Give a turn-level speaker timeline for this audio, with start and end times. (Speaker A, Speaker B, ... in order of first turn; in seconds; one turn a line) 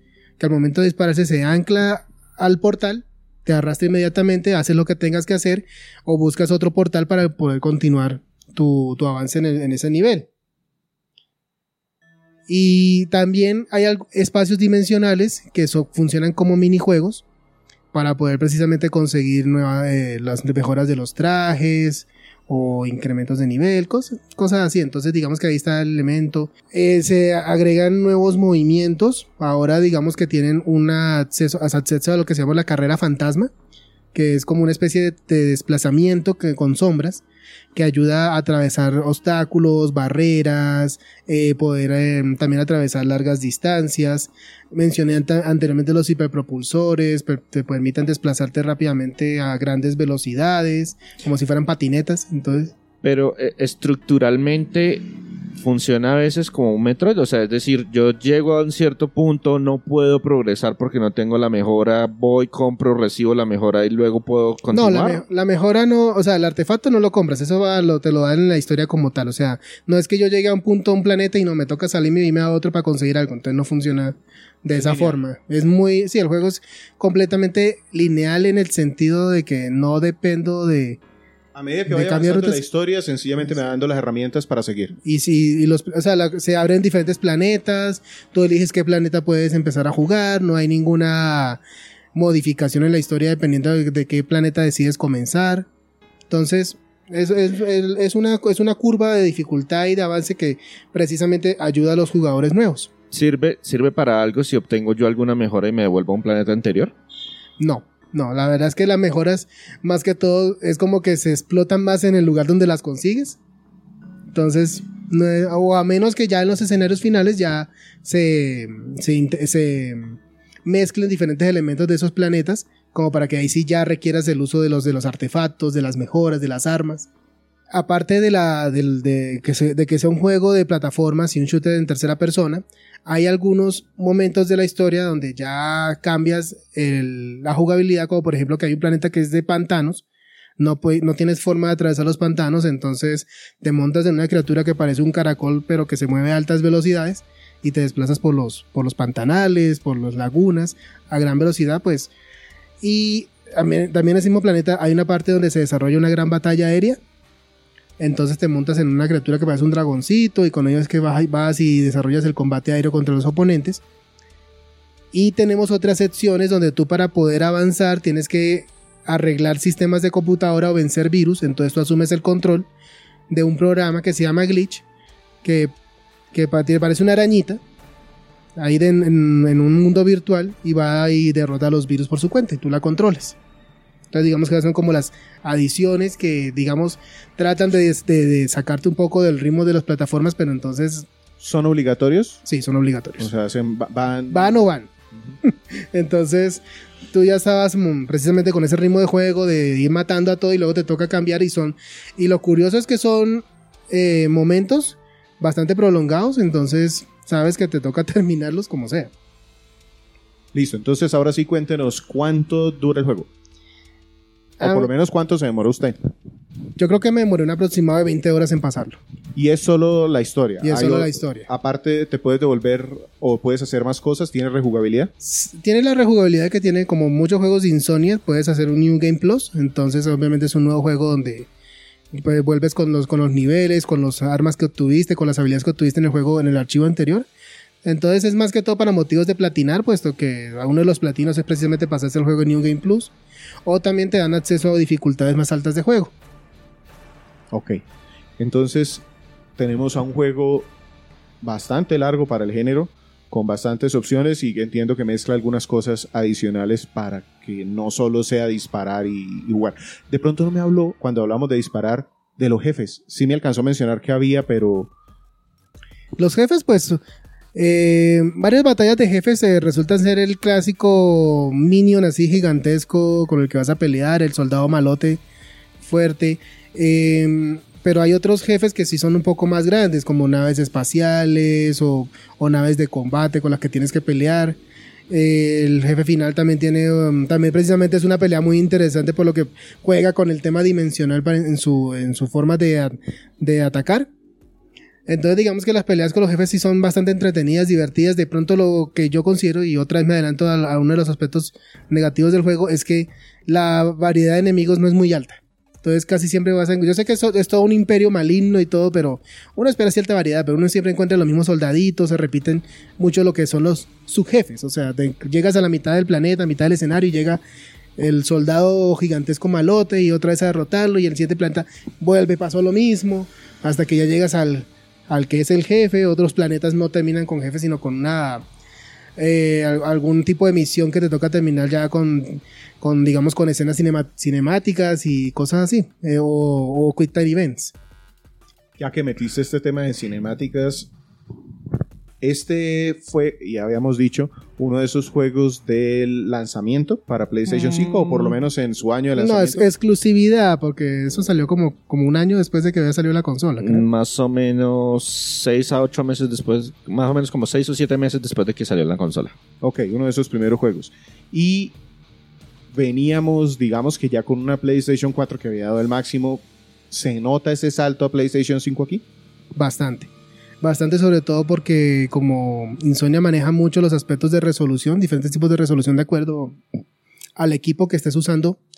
Speaker A: 0.4-10.3
Speaker A: 12.5-17.2
Speaker A: 17.9-33.5
Speaker A: 34.1-37.2
Speaker A: 37.7-52.7
Speaker B: 53.0-55.0
Speaker B: 55.6-65.2
Speaker A: 64.7-81.0
Speaker C: 74.7-75.2
Speaker C: 81.5-84.9
Speaker A: 81.9-82.6
Speaker A: 85.0-91.6
Speaker A: 92.1-95.7
Speaker A: 96.3-102.9
Speaker B: 103.1-106.9
Speaker A: 107.6-113.4
Speaker A: 114.3-127.1
Speaker A: 127.7-140.0
Speaker A: 140.6-152.1
Speaker A: 152.8-157.0
Speaker A: 158.0-163.8
Speaker A: 165.1-172.7
Speaker A: 173.3-174.8
Speaker A: 175.4-175.7
Speaker A: 176.3-177.6
Speaker A: 178.6-183.3
Speaker A: 184.1-191.1
Speaker C: 191.4-192.4
Speaker A: 192.4-193.3
Speaker C: 193.2-194.6
Speaker A: 194.3-194.9
Speaker A: 195.4-209.1
Speaker C: 210.5-213.3
Speaker A: 214.6-214.9
Speaker C: 214.6-216.0
Speaker A: 216.8-219.0
Speaker C: 219.3-225.1
Speaker A: 220.6-221.5
Speaker A: 225.2-231.5
Speaker A: 232.1-237.3
Speaker A: 237.8-243.1
Speaker A: 243.6-246.1
Speaker C: 247.5-247.8
Speaker C: 248.4-249.0
Speaker C: 249.6-250.7
Speaker C: 251.4-264.9
Speaker A: 266.2-267.0
Speaker A: 267.5-275.2
Speaker A: 275.8-284.6
Speaker A: 285.1-294.1
Speaker A: 295.1-317.4
Speaker A: 318.0-328.4
Speaker A: 329.2-337.7
Speaker C: 338.8-340.9
Speaker C: 342.2-349.6
Speaker B: 347.5-348.4
Speaker A: 349.1-353.8
Speaker B: 353.6-359.3
Speaker C: 359.6-361.8
Speaker C: 362.7-369.0
Speaker A: 369.6-370.1
Speaker A: 370.6-376.6
Speaker A: 377.4-378.6